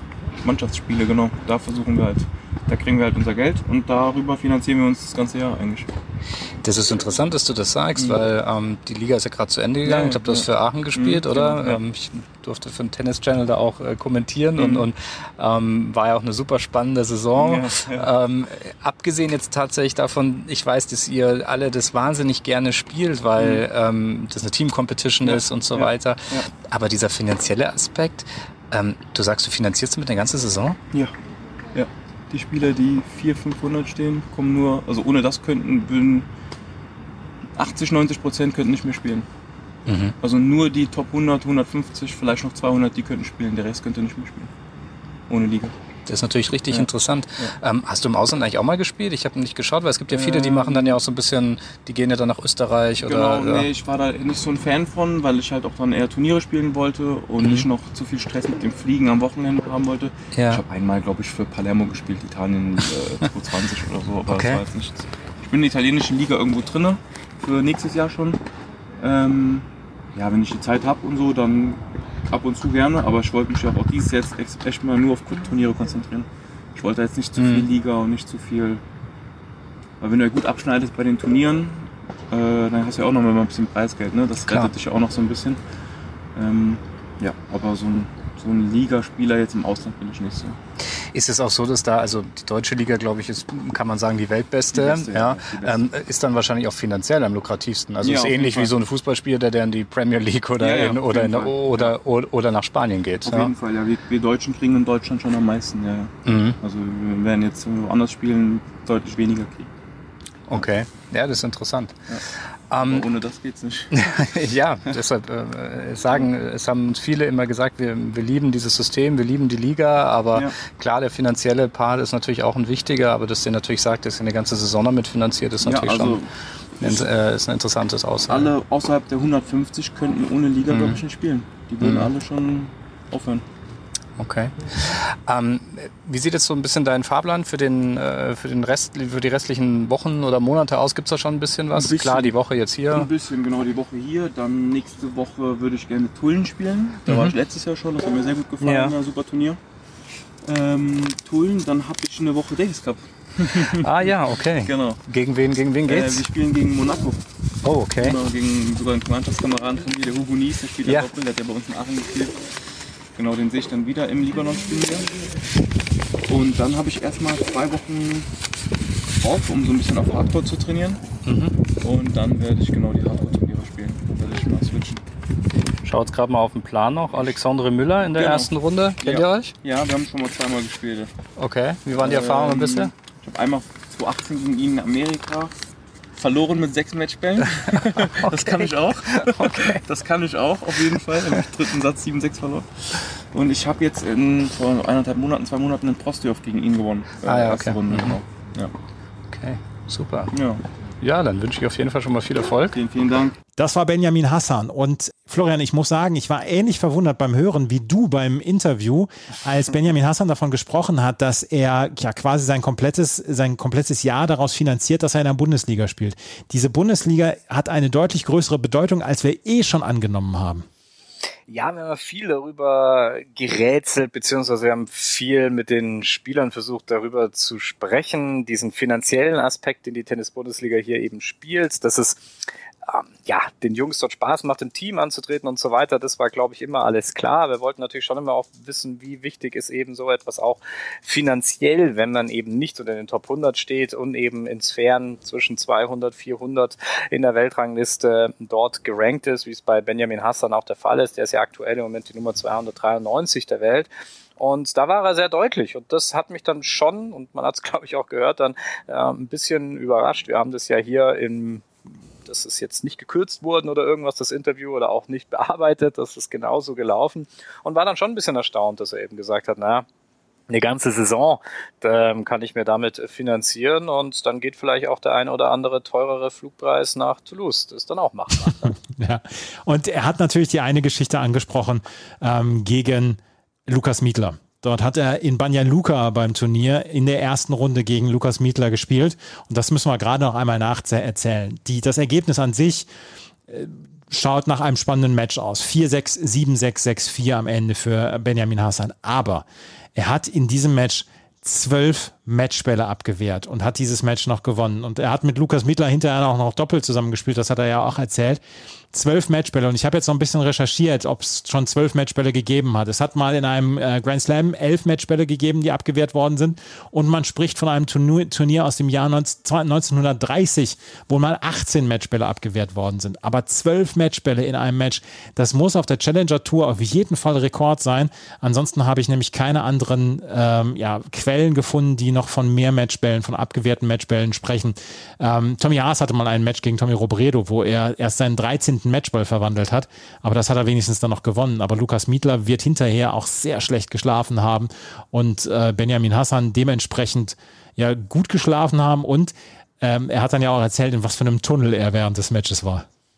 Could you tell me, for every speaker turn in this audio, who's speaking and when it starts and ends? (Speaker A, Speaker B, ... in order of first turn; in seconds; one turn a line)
Speaker A: 0.4-5.9
Speaker B: 6.6-30.8
Speaker A: 9.8-11.8
Speaker A: 14.6-14.9
Speaker A: 17.4-18.1
Speaker A: 23.4-23.6
Speaker A: 25.2-26.5
Speaker A: 31.7-36.2
Speaker A: 37.6-39.2
Speaker B: 39.9-40.1
Speaker A: 40.2-44.5
Speaker A: 45.3-45.7
Speaker B: 46.1-53.7
Speaker A: 46.7-47.5
Speaker A: 50.1-51.0
Speaker A: 53.0-68.4
Speaker B: 57.4-57.7
Speaker B: 60.3-60.6
Speaker B: 64.3-64.6
Speaker A: 69.0-78.8
Speaker B: 77.4-77.7
Speaker A: 80.0-85.6
Speaker B: 84.5-84.7
Speaker A: 86.3-90.6
Speaker B: 91.1-103.5
Speaker A: 94.7-95.9
Speaker A: 98.0-98.7
Speaker A: 100.6-102.0
Speaker A: 103.2-109.7
Speaker B: 106.2-106.6
Speaker B: 110.5-111.9
Speaker B: 112.7-113.0
Speaker A: 112.8-115.0
Speaker B: 113.9-126.2
Speaker A: 125.6-127.1
Speaker B: 126.8-128.5
Speaker A: 128.3-133.4
Speaker B: 130.7-131.0
Speaker B: 131.8-132.1
Speaker B: 134.2-143.1
Speaker A: 141.7-142.4
Speaker A: 142.9-149.6
Speaker B: 147.1-147.3
Speaker B: 148.6-148.9
Speaker A: 150.4-155.0
Speaker B: 153.6-156.2
Speaker A: 155.8-157.2
Speaker B: 157.6-158.2
Speaker A: 158.0-162.5
Speaker A: 163.2-165.1
Speaker A: 166.3-168.3
Speaker A: 169.2-171.0
Speaker B: 171.2-171.6
Speaker A: 171.8-175.0
Speaker B: 175.8-179.5
Speaker A: 178.1-181.1
Speaker B: 181.4-182.9
Speaker A: 181.9-185.5
Speaker A: 186.1-198.7
Speaker B: 188.2-188.7
Speaker B: 189.2-189.8
Speaker B: 197.2-198.2
Speaker B: 199.3-200.3
Speaker A: 200.3-200.6
Speaker B: 201.0-202.8
Speaker A: 202.7-203.4
Speaker C: 203.6-220.7
Speaker B: 221.5-232.3
Speaker B: 232.8-261.7
Speaker B: 262.2-269.9
Speaker B: 270.5-278.7
Speaker C: 278.4-292.9
Speaker C: 293.5-308.4
Speaker C: 308.9-352.9